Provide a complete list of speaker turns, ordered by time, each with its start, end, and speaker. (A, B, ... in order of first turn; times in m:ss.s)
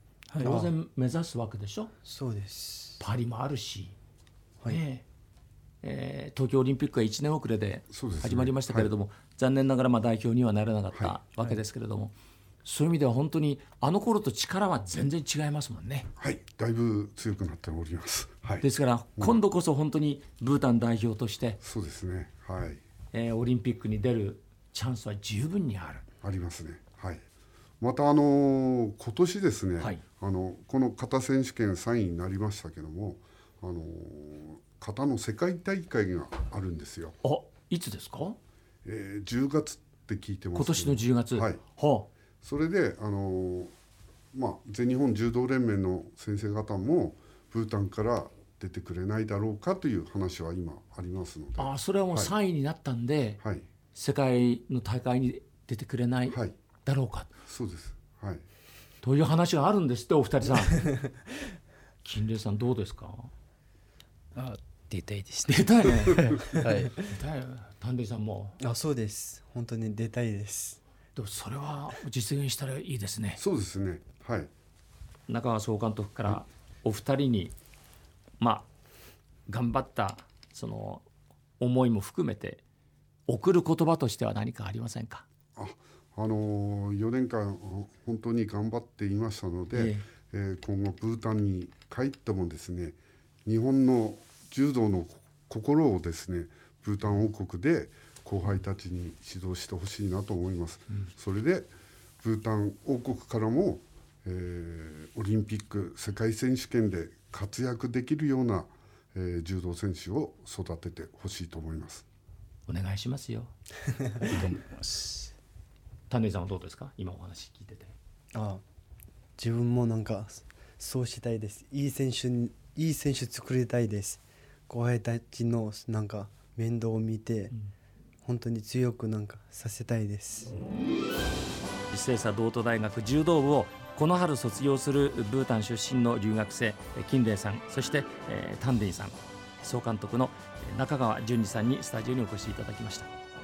0:00.3-0:00.6 A
0:00.4-0:01.9 B
0:00.4-0:00.7 C
0:02.0-0:03.0 C
0:03.0-0:04.0 B
0:04.7-0:05.0 B
0:05.8-0:16.1 B
0:07.9-0:08.9 D
0:10.9-0:11.2 D
0:16.2-0:18.7 D
0:18.6-0:21.6 B
0:21.6-0:22.8 D
0:23.1-0:26.0 B
0:26.2-0:27.2 D
0:27.8-0:37.2 D
0:37.2-0:38.4 B
0:38.8-0:41.6 D
0:40.6-0:42.1 B
0:42.4-0:43.7 D
0:44.3-0:52.3 D
0:51.6-0:53.4 B
0:53.4-0:53.7 D
0:53.9-0:57.3 B
0:56.3-0:56.6 D
0:57.4-0:58.4 D
0:59.0-1:00.9 B
1:02.0-1:03.3 B
1:04.4-1:07.0 A
1:05.5-1:06.3 B
1:07.0-1:08.6 B
1:08.6-1:10.8 C
1:11.2-1:13.4 B
1:13.4-1:14.5 D
1:15.3-1:17.6 B
1:18.4-1:18.7 B
1:19.5-1:21.1 B
1:21.6-1:22.6 B
1:23.3-1:25.3 B
1:25.6-1:52.0 D
1:29.7-1:30.1 B
1:52.7-1:53.5 B
1:54.2-1:55.3 A
1:56.1-1:58.0 B
1:58.3-1:58.6 C
1:59.4-2:07.5 C
2:08.2-2:10.5 C
2:11.9-2:23.1 B